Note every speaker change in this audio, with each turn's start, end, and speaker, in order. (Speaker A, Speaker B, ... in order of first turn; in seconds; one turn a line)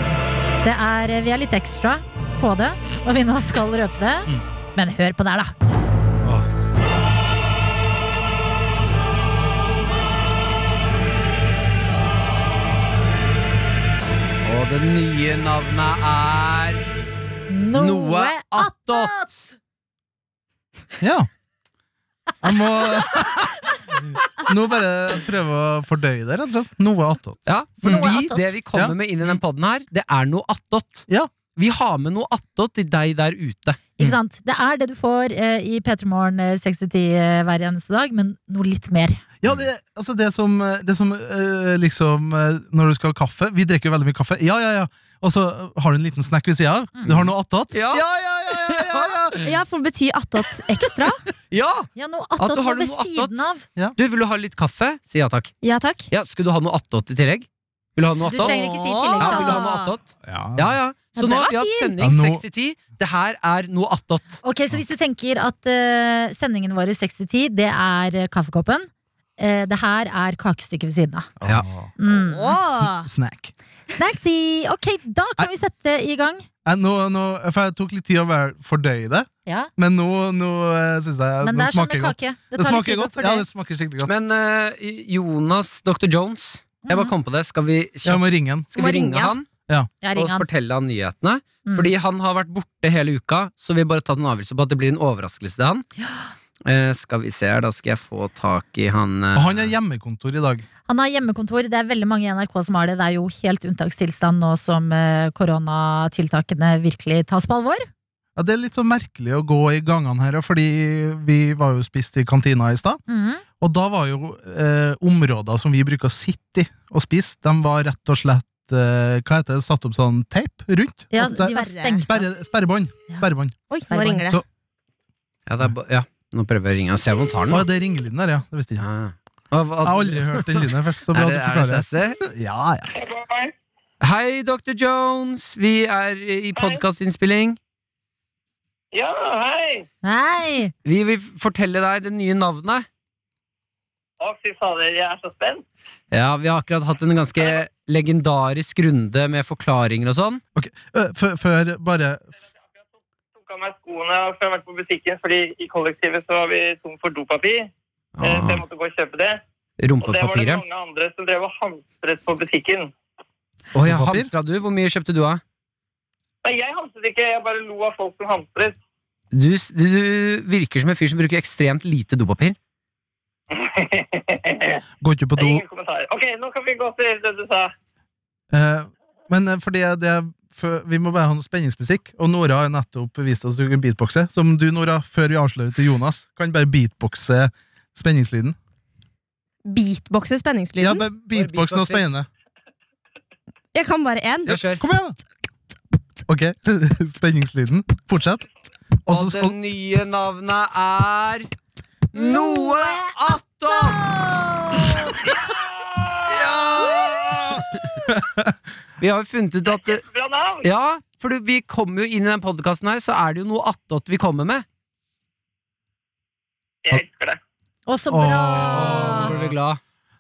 Speaker A: 0.6-5.5
Speaker B: 14.4-16.8
Speaker A: 17.5-19.5
Speaker B: 17.8-19.3
Speaker C: 21.0-21.3
Speaker C: 22.4-28.1
Speaker B: 27.5-33.8
Speaker A: 27.8-28.5
Speaker C: 28.7-29.4
Speaker A: 34.0-39.2
Speaker C: 39.4-49.4
Speaker B: 47.1-49.5
Speaker D: 49.5-51.2
Speaker B: 51.5-53.4
Speaker A: 52.0-53.6
Speaker B: 54.0-55.5
Speaker D: 55.6-56.1
Speaker B: 56.1-58.6
Speaker A: 58.3-59.8
Speaker D: 58.4-59.9
Speaker B: 59.2-64.4
Speaker C: 60.2-60.8
Speaker A: 61.2-62.1
Speaker C: 62.0-62.4
Speaker A: 64.4-71.3
Speaker C: 71.4-71.9
Speaker A: 72.0-72.6
Speaker D: 72.1-73.1
Speaker C: 72.7-73.5
Speaker A: 74.0-76.5
Speaker C: 76.7-84.1
Speaker A: 81.4-83.5
Speaker B: 84.0-89.5
Speaker A: 86.8-87.1
Speaker C: 88.0-88.7
Speaker D: 88.8-89.3
Speaker A: 90.0-90.5
Speaker B: 90.2-95.9
Speaker B: 96.7-99.7
Speaker C: 99.3-100.7
Speaker A: 100.9-107.9
Speaker C: 108.4-113.0
Speaker A: 113.1-113.4
Speaker C: 113.6-123.6
Speaker A: 121.1-122.3
Speaker D: 121.2-122.0
Speaker D: 123.7-124.4
Speaker A: 123.9-124.3
Speaker B: 125.5-127.6
Speaker C: 127.5-128.9
Speaker B: 128.8-132.2
Speaker C: 129.8-132.9
Speaker E: 132.9-133.5
Speaker B: 134.0-137.6
Speaker E: 136.6-136.8
Speaker E: 138.9-139.9
Speaker A: 140.0-140.7
Speaker B: 140.8-142.9
Speaker E: 144.2-145.7
Speaker B: 146.1-150.4
Speaker C: 150.6-152.3
Speaker E: 153.3-157.7
Speaker B: 158.2-158.7
Speaker E: 158.2-159.4
Speaker B: 159.8-160.6
Speaker E: 160.0-162.9
Speaker B: 163.7-165.4
Speaker C: 163.8-164.3
Speaker E: 166.4-168.8
Speaker B: 169.3-172.6
Speaker E: 173.5-174.8
Speaker C: 175.0-175.6
Speaker E: 175.4-177.7
Speaker C: 178.5-188.6
Speaker D: 189.7-191.1
Speaker C: 190.8-192.3
Speaker B: 191.3-192.1
Speaker D: 193.7-194.5
Speaker C: 194.5-195.2
Speaker B: 194.5-194.8
Speaker C: 196.3-198.5
Speaker B: 199.1-201.5
Speaker C: 199.1-199.6
Speaker B: 202.1-204.2
Speaker A: 202.2-203.1
Speaker A: 203.7-205.2
Speaker E: 205.9-206.5
Speaker C: 206.3-208.5
Speaker B: 209.0-210.0
Speaker E: 209.7-210.7
Speaker B: 210.6-214.7
Speaker E: 216.8-217.4
Speaker A: 217.9-219.3
Speaker C: 218.1-219.6
Speaker B: 218.5-219.8